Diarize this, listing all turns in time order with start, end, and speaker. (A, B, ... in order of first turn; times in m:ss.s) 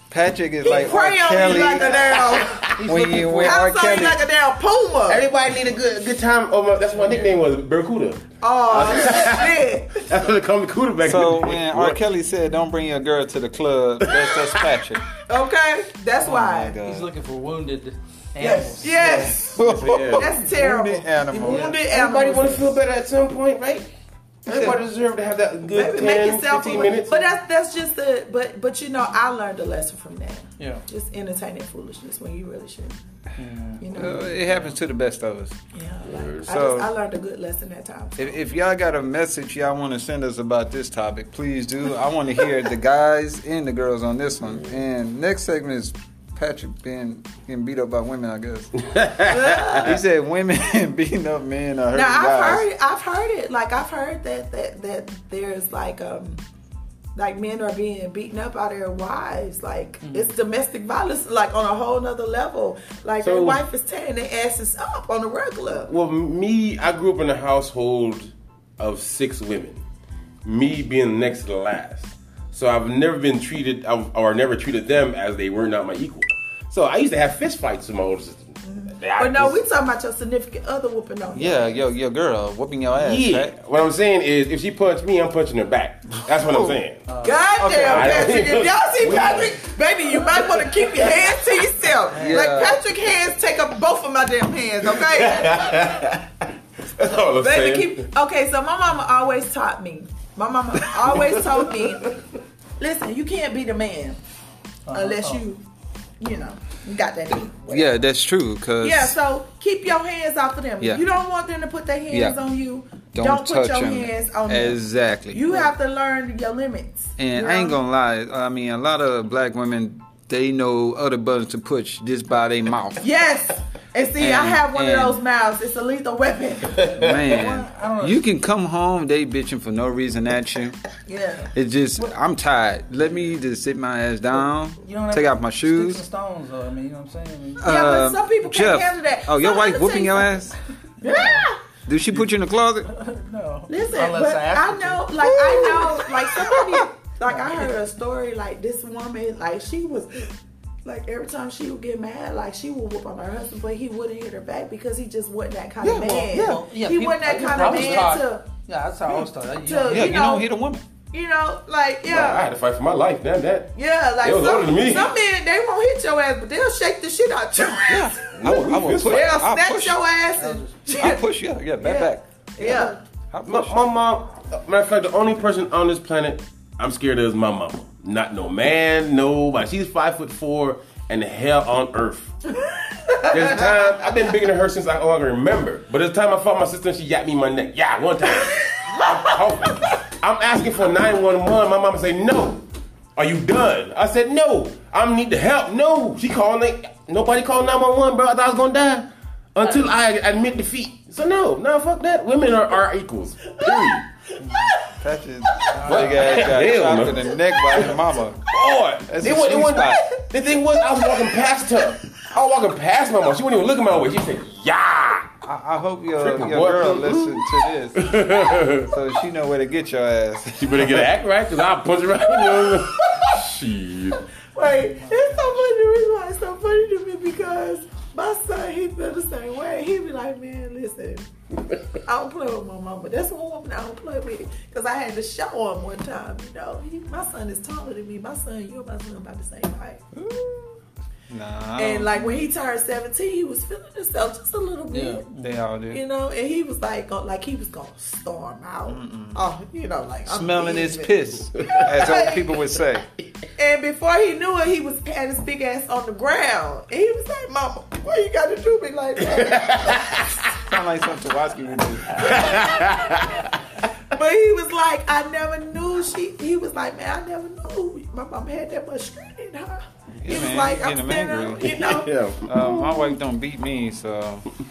0:00.1-0:02.2 A
0:00.6-0:02.6 B
0:01.4-0:02.8 C
0:02.6-0:03.6 D
0:02.8-0:04.2 A
0:03.4-0:05.2 B
0:05.1-0:12.0 C
0:06.9-0:07.3 D
0:08.4-0:10.1 B
0:11.0-0:15.1 A
0:14.0-0:14.6 C
0:15.3-0:16.8 B
0:16.2-0:17.1 A
0:16.8-0:19.4 D
0:18.4-0:19.5 B
0:18.4-0:20.3 C
0:19.4-0:21.8 A
0:20.1-0:22.8 B
0:21.4-0:23.9 C
0:24.4-0:27.3 C
0:24.5-0:24.8 A
0:25.7-0:33.0 B
0:30.6-0:30.8 D
0:33.4-0:34.6 D
0:33.8-0:34.5 B
0:33.9-0:35.6 A
0:35.7-0:38.3 B
0:36.0-0:36.5 C
0:36.4-0:36.9 A
0:38.2-0:52.6 A
0:48.8-0:49.4 C
0:49.3-0:50.0 B
0:51.9-0:56.4 B
0:57.2-1:05.9 B
1:00.0-1:00.3 D
1:03.2-1:03.6 C
1:05.8-1:09.8 C
1:10.4-1:19.6 C
1:18.6-1:21.8 B
1:21.3-1:23.5 A
1:22.9-1:27.0 C
1:26.3-1:26.8 A
1:27.1-1:27.5 D
1:27.2-1:35.7 B
1:27.6-1:28.3 A
1:27.8-1:29.6 C
1:32.1-1:32.8 D
1:32.2-1:32.8 A
1:34.8-1:38.0 C
1:37.3-1:42.2 B
1:41.1-1:42.1 C
1:42.8-1:44.2 B
1:44.8-1:45.4 D
1:44.9-1:45.6 B
1:46.2-1:48.0 B
1:47.3-1:49.2 A
1:48.8-1:57.8 B
1:52.1-1:52.4 A
1:53.1-1:55.7 A
1:57.2-2:03.0 A
2:03.0-2:06.9 B
2:04.2-2:05.2 A
2:06.8-2:07.1 C
2:07.0-2:10.8 A
2:07.1-2:08.2 D
2:11.1-2:12.1 D
2:11.5-2:16.0 A
2:14.8-2:17.7 D
2:17.6-2:20.6 A
2:17.6-2:21.6 B
2:21.0-2:21.5 D
2:21.8-2:22.9 A
2:22.8-2:25.2 D
2:23.7-2:38.5 B
2:25.2-2:26.8 A
2:27.3-2:27.7 D
2:35.8-2:36.6 A
2:36.3-2:40.4 D
2:39.6-2:40.5 B
2:39.8-2:40.8 A
2:41.1-2:42.5 B
2:42.0-2:45.1 C
2:43.8-2:48.3 B
2:47.8-2:50.0 A
2:48.3-2:49.4 C
2:48.9-2:51.2 B
2:50.4-2:50.8 D
2:50.9-2:53.9 A
2:51.8-2:53.0 B
2:53.5-3:02.5 C
3:03.1-3:03.4 B
3:03.2-3:24.1 C
3:23.6-3:24.0 B
3:24.5-3:28.5 A
3:25.7-3:26.5 D
3:25.8-3:35.3 C
3:27.5-3:28.0 B
3:29.0-3:30.1 A
3:30.8-3:31.4 B
3:35.4-3:38.2 A
3:36.2-3:37.4 C
3:38.0-3:38.9 C
3:38.8-3:41.1 A
3:40.6-3:44.2 C
3:42.3-3:43.3 B
3:44.5-3:51.3 B
3:44.6-3:45.4 D
3:52.0-4:00.0 B
4:00.1-4:00.8 A
4:01.3-4:02.5 A
4:01.8-4:05.2 B
4:04.9-4:05.6 D
4:05.4-4:06.0 A
4:05.9-4:12.6 B
4:08.9-4:09.4 A
4:10.3-4:13.0 A
4:13.6-4:20.2 B
4:19.3-4:20.3 C
4:20.5-4:22.6 A
4:22.1-4:23.6 C
4:22.2-4:23.4 B
4:24.1-4:32.1 B
4:30.2-4:31.8 A
4:31.6-4:33.1 C
4:32.4-4:34.5 A